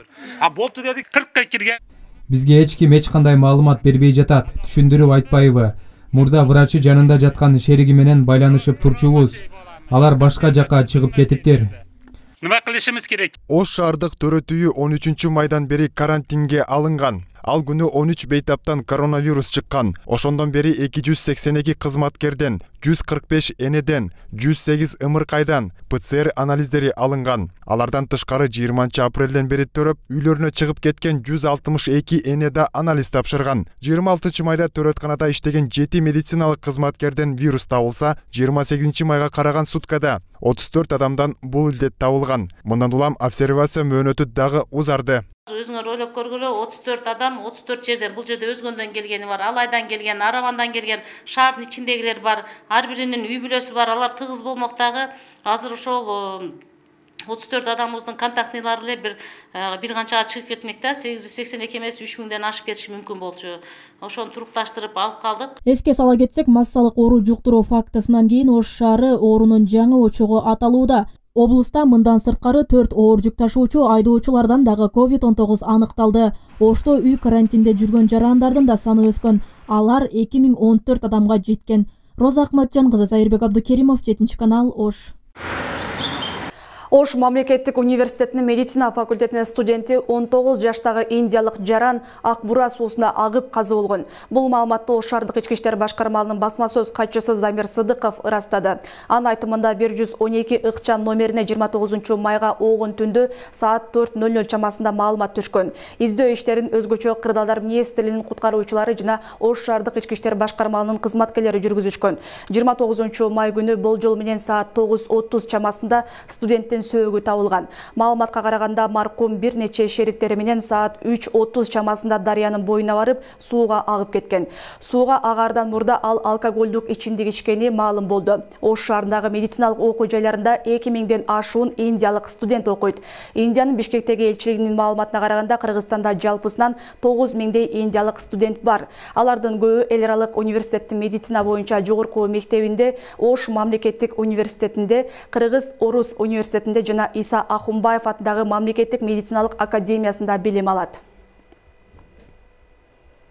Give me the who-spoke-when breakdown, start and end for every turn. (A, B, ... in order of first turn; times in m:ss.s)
0:00.5-0:01.8 A
0:02.3-0:11.7 B
0:12.4-0:13.3 A
0:13.5-0:45.2 C
0:45.5-0:56.5 D
0:57.3-1:05.6 D
1:05.7-1:25.1 E
1:26.9-2:31.0 F